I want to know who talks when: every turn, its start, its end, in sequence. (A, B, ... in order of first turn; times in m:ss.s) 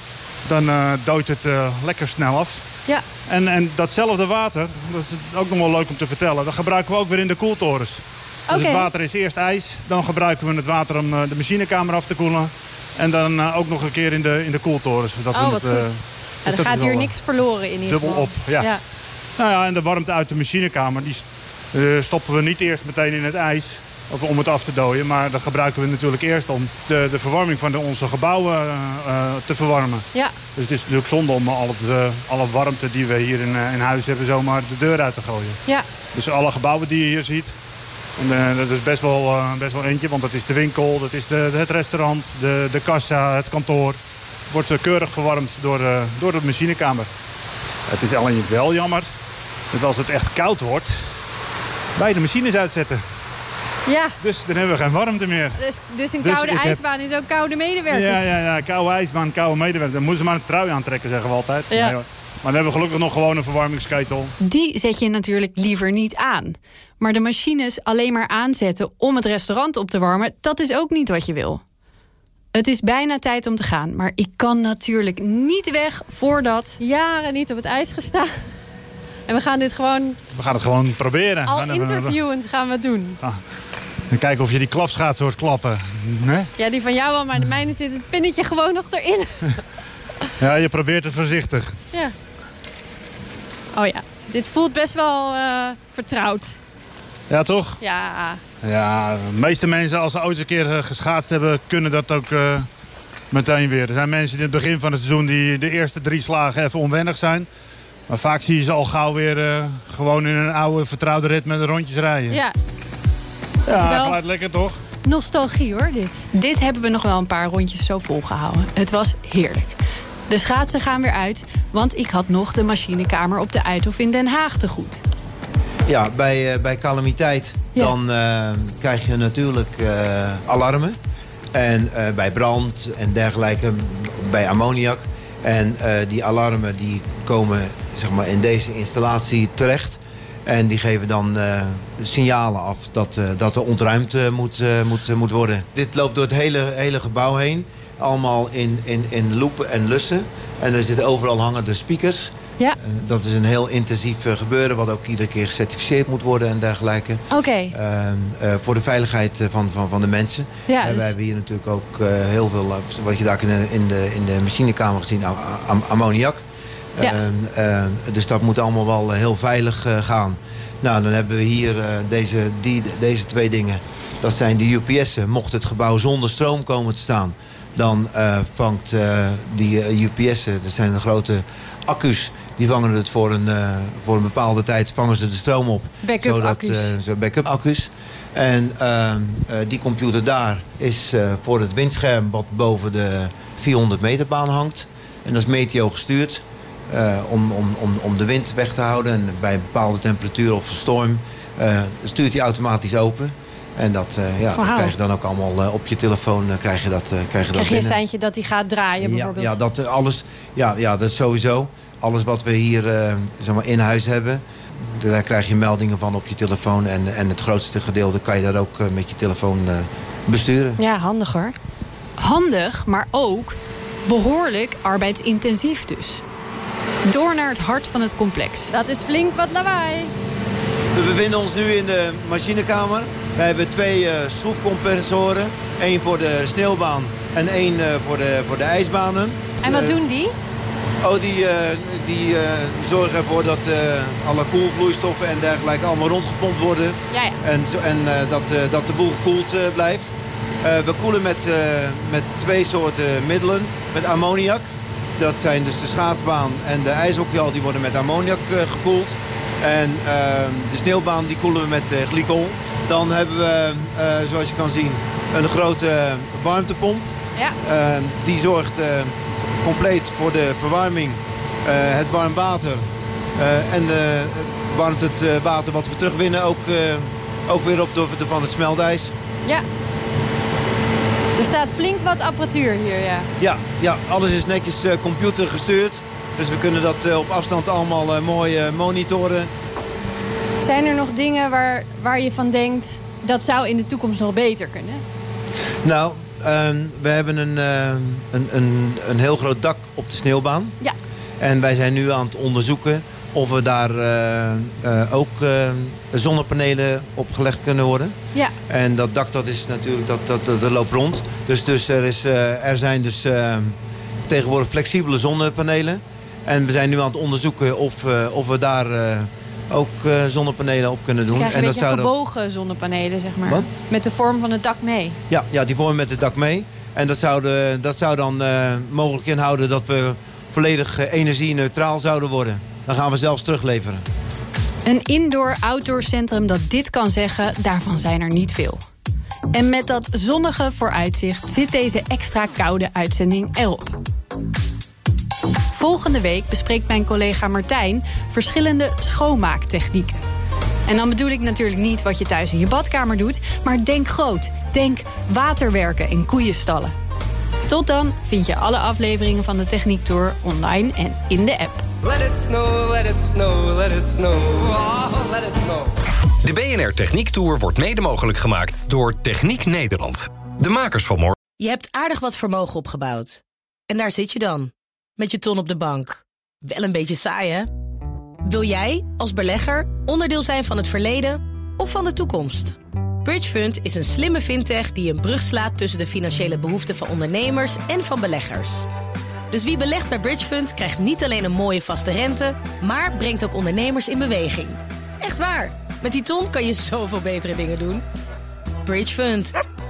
0:00.4-0:02.6 A
0:03.3-0:17.1 A
0:08.5-0:08.9 B
0:15.3-0:18.8 B
0:17.8-0:18.7 A
0:19.4-0:35.6 A
0:36.1-0:37.5 A
0:38.2-0:44.0 A
0:44.5-0:47.1 A
0:47.9-0:49.1 A
0:49.7-0:50.9 A
0:52.0-0:53.0 A
0:53.8-0:54.2 B
0:54.2-0:55.6 A
0:55.6-0:58.3 B
0:56.2-0:56.8 A
0:57.9-1:04.4 A
1:04.4-1:11.6 C
1:12.5-1:16.8 C
1:16.8-1:18.4 B
1:19.3-1:20.2 B
1:20.3-1:22.2 A
1:21.5-1:23.2 B
1:24.1-1:26.5 A
1:26.6-1:29.6 B
1:30.4-1:31.8 A
1:33.7-1:36.6 B
1:37.3-1:37.8 A
1:37.8-1:38.4 B
1:38.6-1:42.7 A
1:43.3-1:47.5 A
1:48.1-1:52.4 A
1:53.6-1:54.8 A
1:53.7-1:54.2 B
1:55.0-1:56.2 B
1:56.3-1:59.7 C
2:00.3-2:05.0 C
2:05.9-2:11.0 D
2:11.5-3:28.0 D
2:37.3-2:37.7 B
2:40.7-2:41.1 B
3:06.0-3:06.9 B
3:24.6-3:24.9 B
3:27.5-3:29.6 B
3:29.0-3:40.8 D
3:40.8-3:41.5 B
3:42.2-3:46.2 C
3:47.0-3:48.7 C
3:48.7-3:50.1 B
3:50.9-4:00.0 D
3:59.6-4:00.3 B
4:01.0-4:27.1 D
4:27.6-4:39.1 D
4:41.4-4:43.3 B
4:43.4-4:49.5 D
4:50.6-4:55.0 B
4:55.8-5:00.8 D
5:01.4-5:08.1 D
5:08.7-5:13.8 D
5:14.3-5:22.1 D
5:21.3-5:25.2 B
5:25.3-5:34.0 D
5:34.8-5:38.8 C
5:39.5-5:44.0 C
5:45.7-5:50.2 C
5:50.9-5:56.9 C
5:57.7-6:01.8 C
6:02.0-6:06.0 E
6:06.4-6:11.3 F
6:11.6-6:17.7 G
6:18.4-6:28.8 G
6:29.5-6:38.0 G
6:38.8-6:39.5 G